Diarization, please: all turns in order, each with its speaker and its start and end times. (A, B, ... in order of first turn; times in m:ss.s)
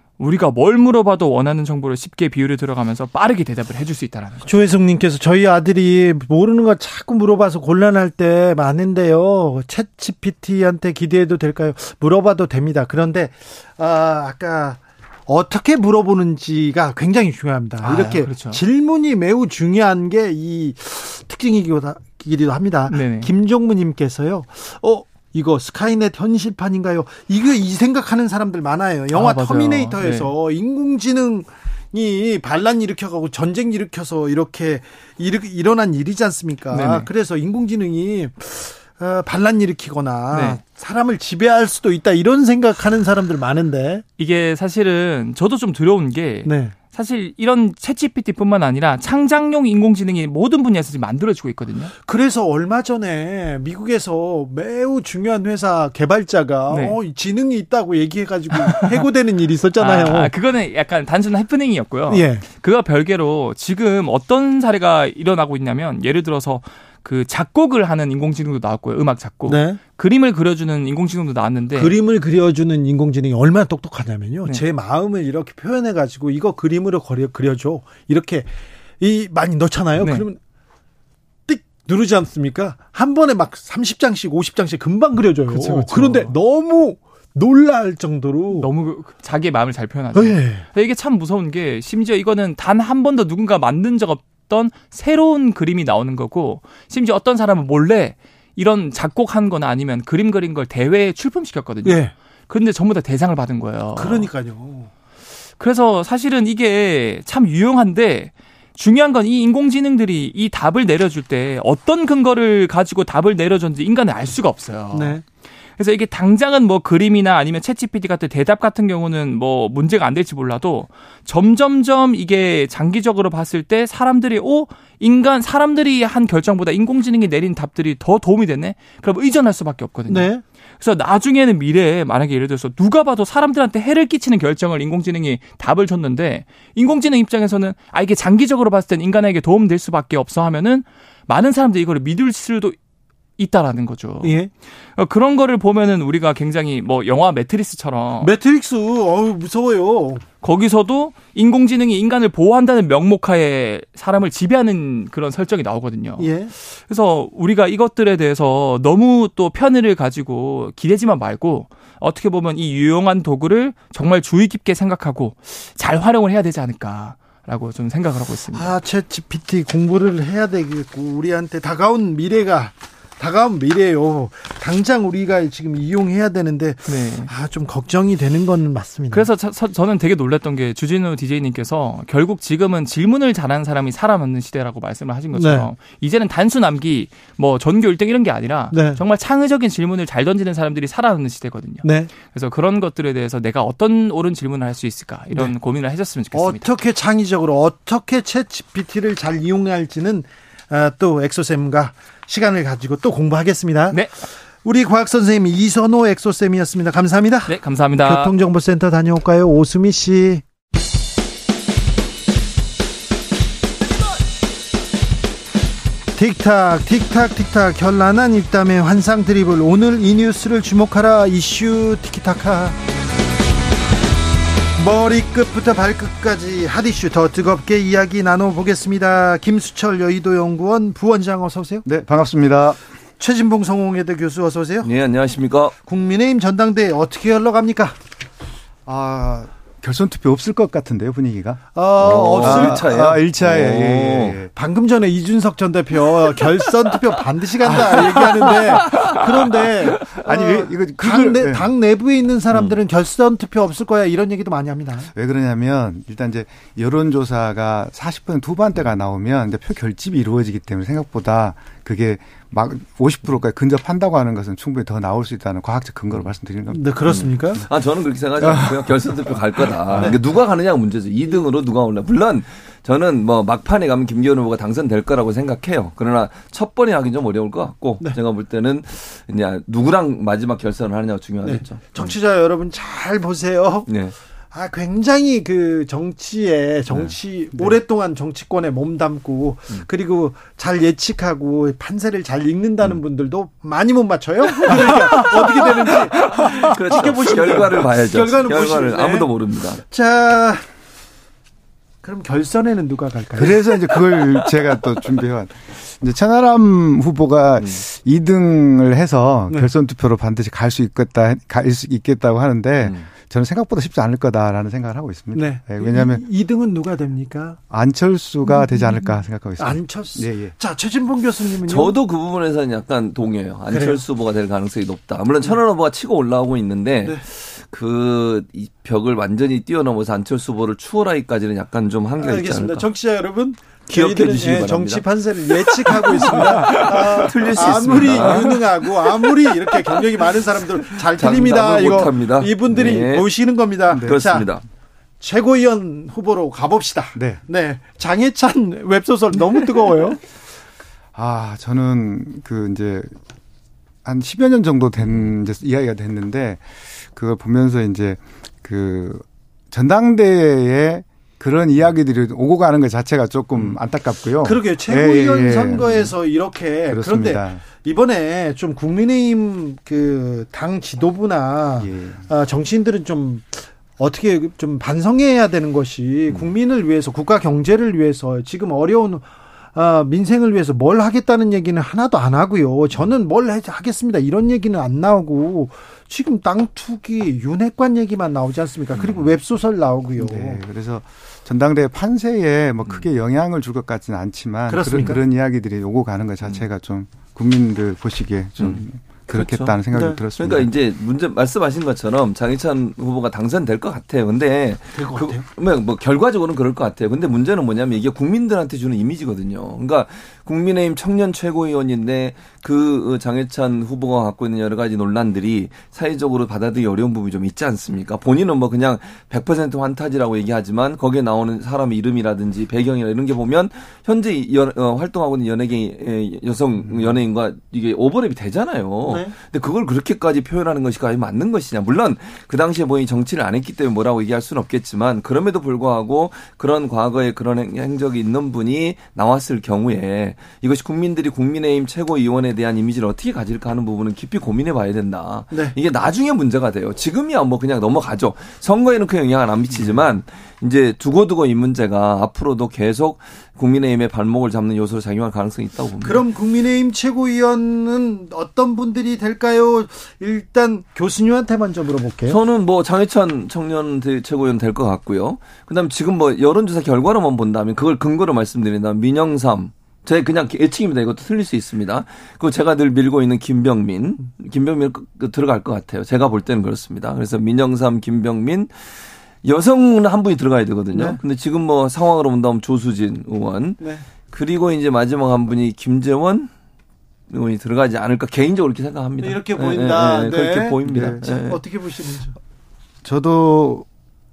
0:00.2-0:04.5 A
0:04.4-0:44.0 B
0:17.8-0:18.6 A
0:22.9-0:23.3 A
0:29.1-0:30.3 A
0:36.7-0:37.1 A
0:40.3-0:40.6 A
0:44.2-0:51.9 A
0:46.4-0:46.7 B
0:52.0-1:00.3 B
0:56.7-0:57.0 A
0:58.6-0:59.0 A
0:59.8-1:11.9 A
1:02.1-1:02.4 B
1:09.5-1:09.8 B
1:11.7-1:18.5 B
1:19.0-1:20.4 B
1:20.0-1:20.2 A
1:21.5-1:28.7 B
1:25.5-1:26.3 A
1:28.5-1:44.3 A
1:30.1-1:30.6 B
1:41.8-1:42.1 B
1:44.0-1:44.9 B
1:45.6-1:55.2 A
1:54.9-1:55.2 B
1:55.8-2:22.7 A
2:10.1-2:10.4 B
2:23.4-2:24.4 A
2:24.2-2:24.5 B
2:25.0-2:28.3 A
2:28.2-2:30.2 B
2:30.4-2:48.7 A
2:36.2-2:36.5 B
2:48.5-2:59.3 B
2:56.9-2:57.3 A
2:59.1-3:16.7 A
3:05.3-3:05.7 B
3:08.7-3:09.0 B
3:11.8-3:12.1 B
3:16.3-3:24.0 B
3:24.6-3:30.4 B
3:27.5-3:28.3 A
3:36.1-3:42.8 B
3:44.8-3:51.8 B
3:51.8-3:52.8 C
3:53.2-3:54.9 B
3:54.8-3:55.7 D
3:55.8-3:58.0 B
3:58.8-4:01.6 C
4:01.7-4:02.8 B
4:02.0-4:04.4 D
4:02.3-4:04.5 C
4:04.5-4:15.1 B
4:10.1-4:11.7 C
4:12.5-4:12.8 D
4:15.1-4:27.0 C
4:26.7-4:27.6 B
4:27.0-4:42.1 D
4:28.4-4:30.2 C
4:41.4-4:43.9 B
4:43.9-4:44.1 D
4:44.5-5:00.7 B
4:46.9-4:47.1 D
4:54.6-4:59.8 D
5:02.0-5:03.7 B
5:03.4-5:16.2 C
5:15.3-5:17.6 B
5:17.7-5:20.5 C
5:18.4-5:21.9 B
5:21.6-5:32.9 D
5:23.7-5:24.0 B
5:32.2-5:44.5 B
5:33.9-5:39.9 D
5:37.9-5:38.3 C
5:41.0-5:43.3 D
5:43.9-5:44.2 C
5:43.9-5:44.6 D
5:45.2-5:50.2 B
5:47.2-5:47.4 C
5:51.1-5:53.2 C
5:54.0-6:06.1 C
6:04.4-6:30.6 B
6:06.9-6:07.6 C
6:11.8-6:12.2 C
6:29.0-6:29.3 D
6:30.2-6:40.7 C
6:34.7-6:35.2 B
6:38.6-6:39.7 D
6:39.9-6:40.2 B
6:40.4-7:36.2 D
6:44.9-6:45.4 B
7:09.1-7:09.3 B
7:36.0-7:42.4 B
7:42.3-8:06.5 D
8:00.9-8:01.2 B
8:03.8-8:04.0 B
8:07.3-8:11.6 D
8:09.2-8:12.4 B
8:10.8-8:11.2 C
8:13.0-8:13.8 C